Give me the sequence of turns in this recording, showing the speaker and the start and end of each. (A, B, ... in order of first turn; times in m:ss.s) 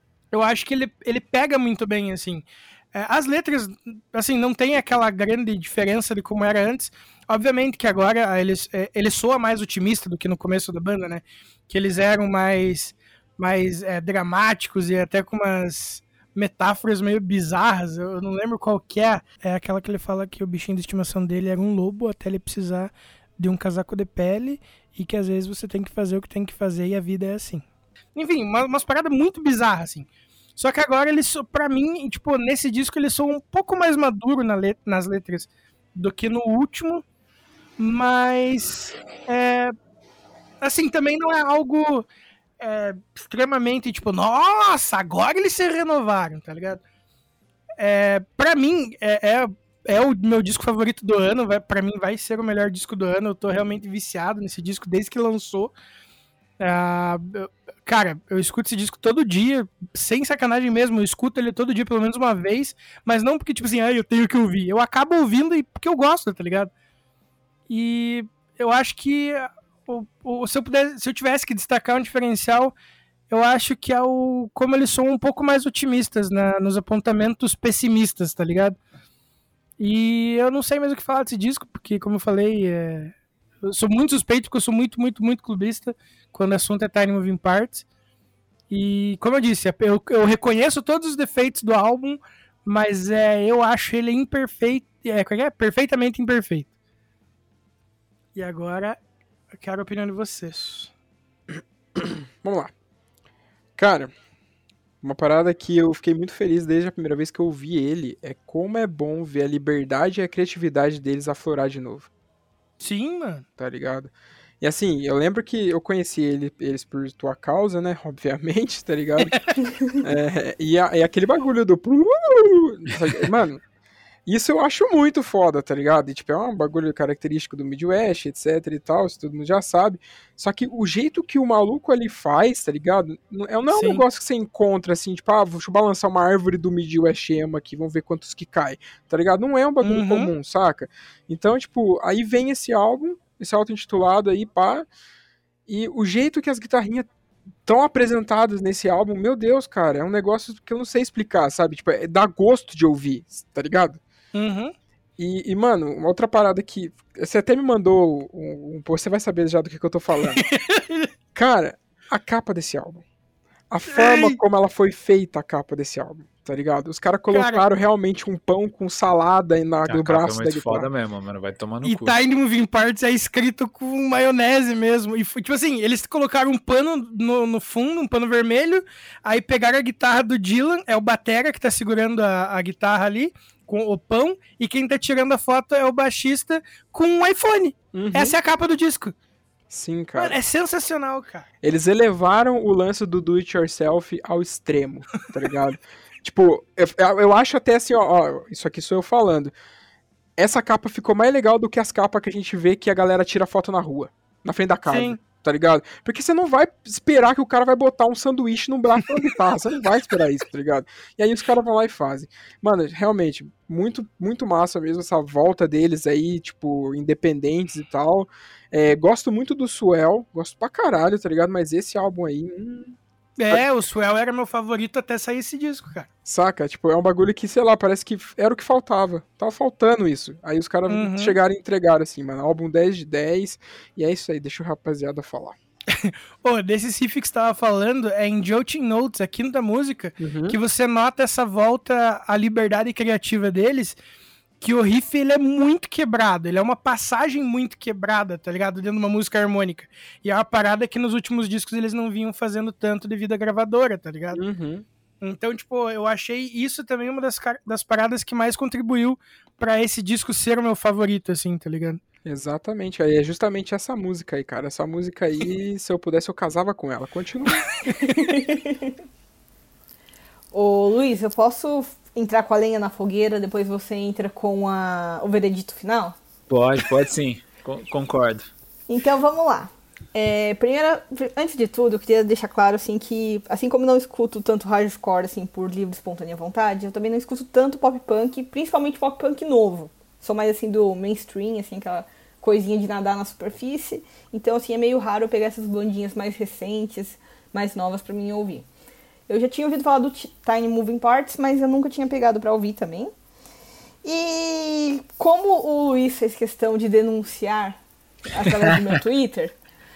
0:00.3-0:27.6 A
0:28.2-0:37.0 A
0:37.8-0:39.7 A
0:40.6-0:42.1 A
0:42.6-0:46.8 A
0:47.8-0:55.7 A
0:56.6-1:06.7 A
1:07.7-1:12.7 A
1:13.3-1:18.8 A
1:19.8-1:23.1 A
1:23.6-1:27.8 A
1:28.7-1:36.7 A
1:38.4-1:39.0 A
1:39.5-1:40.9 A
1:42.0-1:42.7 B
1:43.8-1:44.1 B
1:45.0-1:52.1 B
1:52.8-1:53.4 A
1:53.6-1:59.4 B
1:59.9-2:03.6 B
2:04.3-2:24.9 B
2:13.7-2:14.0 A
2:19.8-2:20.3 A
2:25.7-2:27.1 B
2:27.6-2:34.0 B
2:34.3-2:34.7 A
2:35.2-2:40.4 B
2:40.5-2:41.1 A
2:41.4-2:43.0 B
2:43.7-2:50.9 B
2:43.9-2:44.4 A
2:47.3-2:47.6 A
2:49.9-2:52.2 C
2:51.8-3:09.1 A
3:07.9-3:08.4 B
3:09.7-3:10.4 B
3:10.2-3:11.4 A
3:11.6-3:19.5 B
3:20.4-3:43.0 B
3:24.9-3:25.2 A
3:43.4-3:46.1 A
3:46.2-3:55.6 B
3:50.9-3:51.4 A
3:55.9-4:04.0 A
4:00.2-4:00.6 B
4:04.6-4:14.4 A
4:14.3-4:14.8 B
4:15.2-4:22.0 A
4:22.2-4:27.7 B
4:28.4-4:28.9 D
4:30.5-4:36.2 D
4:36.5-4:38.5 C
4:38.9-4:58.6 D
4:59.3-5:03.1 D
5:04.0-5:09.6 D